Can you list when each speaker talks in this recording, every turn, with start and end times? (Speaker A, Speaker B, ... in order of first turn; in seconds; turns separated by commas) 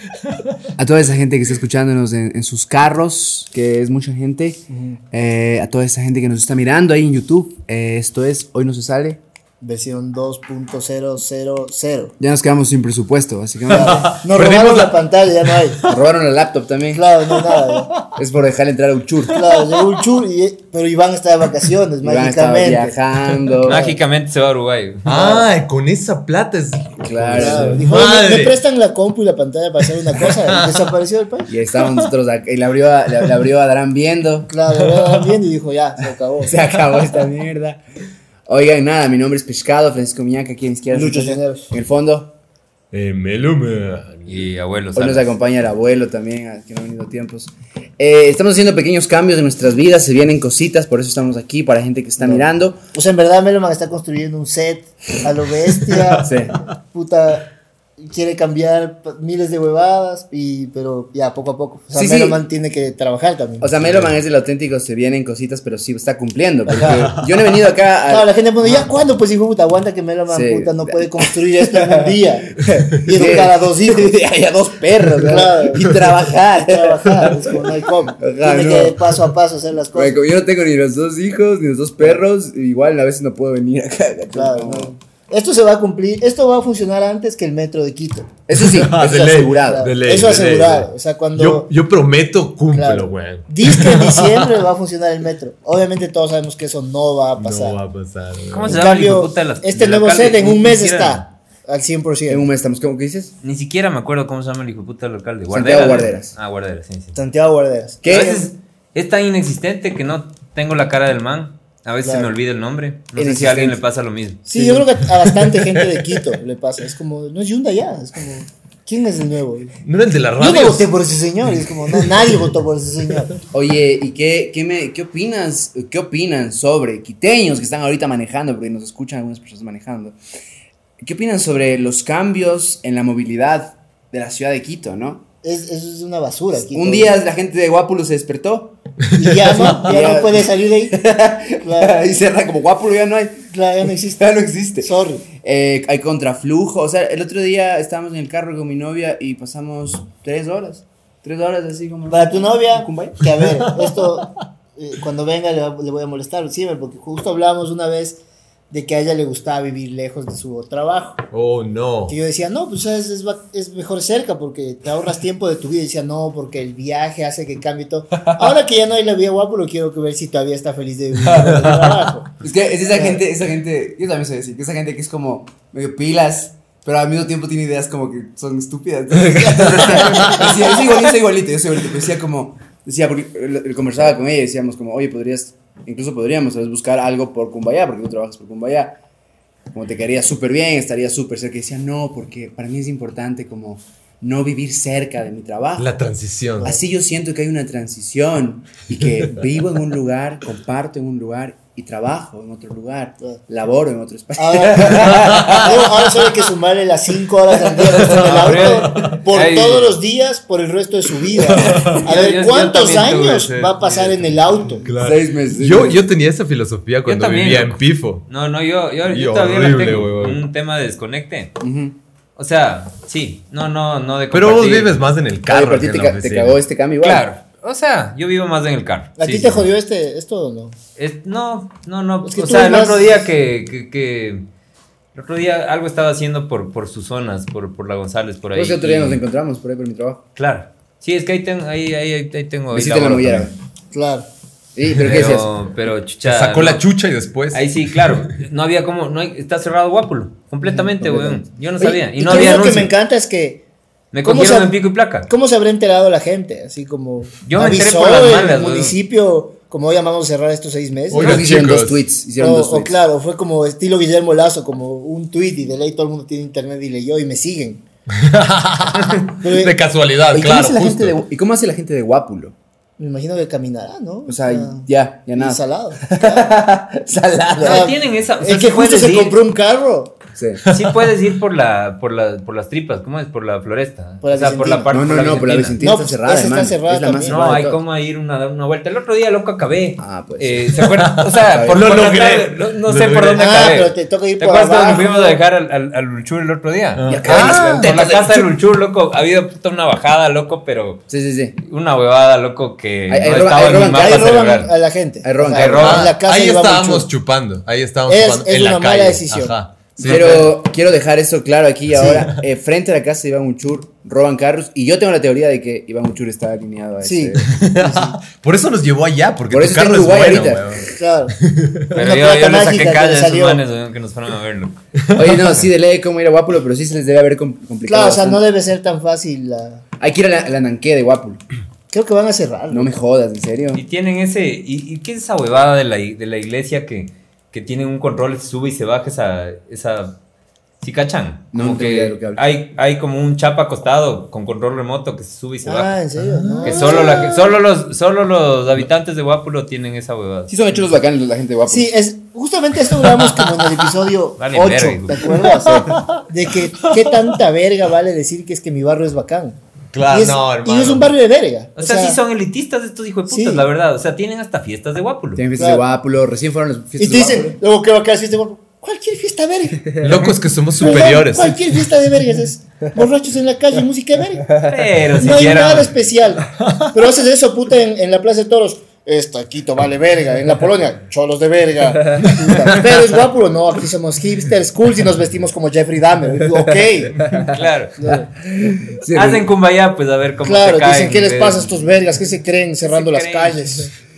Speaker A: 0.8-9.2, Speaker B: 4.7-5.0, Speaker B: 9.6-12.1, Speaker A: 12.2-14.1, Speaker B: 13.7-15.8, Speaker C: 13.7-16.0, Speaker A: 15.9-17.1, Speaker B: 16.9-18.0, Speaker C: 17.4-17.8, Speaker A: 18.1-19.4, Speaker B: 19.3-22.9, Speaker C: 19.5-19.9, Speaker A: 22.0-24.0, Speaker D: 23.6-25.1, Speaker C: 25.1-28.6, Speaker B: 25.1-25.5, Speaker A: 27.0-27.9, Speaker B: 27.3-31.5, Speaker C: 30.1-30.9, Speaker A: 31.5-34.5, Speaker C: 31.8-32.1, Speaker B: 34.5-36.5, Speaker C: 34.8-35.2, Speaker A: 36.4-37.8, Speaker A: 38.5-42.3, Speaker B: 40.9-41.7, Speaker C: 42.9-44.5, Speaker D: 44.3-45.3, Speaker A: 45.0-52.8, Speaker B: 52.2-57.5, Speaker C: 55.9-56.2, Speaker A: 56.2-56.6, Speaker B: 58.0-64.1, Speaker A: 61.9-62.4, Speaker A: 63.6-68.9, Speaker B: 66.7-67.2, Speaker B: 68.1-74.2, Speaker A: 70.3-77.5, Speaker B: 75.2-80.2, Speaker A: 78.2-79.3, Speaker A: 79.9-84.9, Speaker B: 84.3-88.3, Speaker A: 88.5-89.9, Speaker C: 88.6-94.5, Speaker B: 89.0-91.7, Speaker B: 92.7-97.8, Speaker C: 97.4-98.8, Speaker D: 98.5-101.2, Speaker B: 98.7-102.5, Speaker A: 102.3-103.3, Speaker D: 103.4-107.2, Speaker A: 105.5-106.3, Speaker B: 107.2-108.4, Speaker A: 108.0-108.5, Speaker D: 108.1-114.4, Speaker B: 112.0-112.3, Speaker A: 113.2-113.8, Speaker B: 114.5-119.8, Speaker C: 114.7-116.1, Speaker C: 119.8-120.9, Speaker B: 120.4-123.3, Speaker C: 121.5-122.3, Speaker A: 123.5-130.2, Speaker A: 131.0-135.2, Speaker B: 135.4-137.1, Speaker A: 136.6-138.8, Speaker B: 139.2-141.0, Speaker C: 139.2-139.9, Speaker A: 139.5-143.4, Speaker B: 141.6-142.0, Speaker B: 143.5-144.2, Speaker A: 144.2-153.2, Speaker B: 144.8-145.2, Speaker B: 152.1-161.2, Speaker C: 161.3-162.2, Speaker B: 162.1-172.3, Speaker A: 168.3-168.5, Speaker A: 171.2-171.7, Speaker C: 171.3-172.0, Speaker A: 172.4-189.0, Speaker B: 172.9-173.2, Speaker C: 179.4-180.4, Speaker B: 179.4-180.8, Speaker A: 189.7-195.9, Speaker C: 195.8-196.7, Speaker A: 196.6-205.9, Speaker B: 204.4-214.9, Speaker C: 205.1-206.0, Speaker C: 207.8-209.2, Speaker D: 208.2-210.0, Speaker C: 211.4-212.0, Speaker D: 212.0-214.6, Speaker C: 214.8-218.3, Speaker A: 215.0-216.0, Speaker D: 217.1-221.5, Speaker C: 219.1-220.4, Speaker A: 221.6-222.0, Speaker D: 222.4-224.9, Speaker C: 224.3-226.6, Speaker A: 225.5-227.3, Speaker D: 227.0-229.7, Speaker B: 229.2-230.8, Speaker D: 231.0-234.5, Speaker B: 232.2-233.3, Speaker D: 235.2-239.2, Speaker A: 238.6-240.2, Speaker D: 240.4-243.5, Speaker A: 242.7-243.5, Speaker B: 243.9-244.3, Speaker A: 244.8-245.5, Speaker D: 244.9-246.8, Speaker C: 246.2-248.2, Speaker D: 247.5-252.9, Speaker A: 250.9-251.4, Speaker B: 251.8-253.6, Speaker D: 254.1-255.3, Speaker B: 254.2-254.7, Speaker B: 255.3-261.5, Speaker D: 257.4-259.0, Speaker C: 261.1-262.0, Speaker A: 261.2-262.9, Speaker B: 262.4-267.8, Speaker C: 268.2-271.2, Speaker D: 269.0-269.2, Speaker B: 269.4-269.8, Speaker A: 270.3-272.6, Speaker B: 273.0-276.5, Speaker A: 274.3-277.9, Speaker D: 277.6-279.4, Speaker B: 277.6-280.2, Speaker A: 280.4-280.6, Speaker D: 280.7-285.8, Speaker B: 284.2-284.9, Speaker A: 284.9-287.8, Speaker B: 285.8-287.6, Speaker D: 287.2-301.0, Speaker A: 290.0-290.8, Speaker C: 291.0-293.7, Speaker A: 291.5-291.9, Speaker B: 293.4-295.4, Speaker C: 297.0-297.9, Speaker A: 297.1-298.5, Speaker A: 301.1-301.6, Speaker D: 301.6-304.7, Speaker A: 303.1-304.4, Speaker B: 303.9-307.1, Speaker A: 305.2-306.0, Speaker D: 305.4-306.1, Speaker C: 305.8-310.5, Speaker B: 308.1-309.5, Speaker A: 310.0-317.6, Speaker D: 310.0-310.5, Speaker B: 311.9-312.3, Speaker B: 317.0-318.2, Speaker C: 317.5-321.8, Speaker A: 319.5-320.8, Speaker B: 320.9-321.4, Speaker D: 321.9-324.8, Speaker B: 321.9-323.6, Speaker A: 325.1-328.4, Speaker B: 327.9-329.8, Speaker A: 330.0-331.4, Speaker B: 331.9-332.9, Speaker A: 332.7-333.8, Speaker D: 333.7-340.2, Speaker D: 340.8-346.0, Speaker A: 341.5-342.4, Speaker B: 345.6-347.6, Speaker C: 346.4-346.8, Speaker D: 346.6-350.5, Speaker A: 350.5-351.9, Speaker B: 351.7-359.6, Speaker C: 353.0-353.6, Speaker D: 354.4-355.3, Speaker A: 355.5-356.0, Speaker C: 355.5-356.2, Speaker C: 357.0-357.3, Speaker C: 359.9-361.1, Speaker B: 360.1-362.2, Speaker D: 361.8-365.4, Speaker B: 363.3-363.6, Speaker A: 365.4-367.6, Speaker B: 365.6-365.8, Speaker B: 367.0-388.3, Speaker C: 370.0-371.7, Speaker D: 374.6-375.9, Speaker C: 376.6-376.9, Speaker C: 382.4-382.7, Speaker D: 387.5-388.0, Speaker A: 388.5-389.5, Speaker D: 389.1-391.7, Speaker B: 390.4-393.9, Speaker D: 392.8-393.6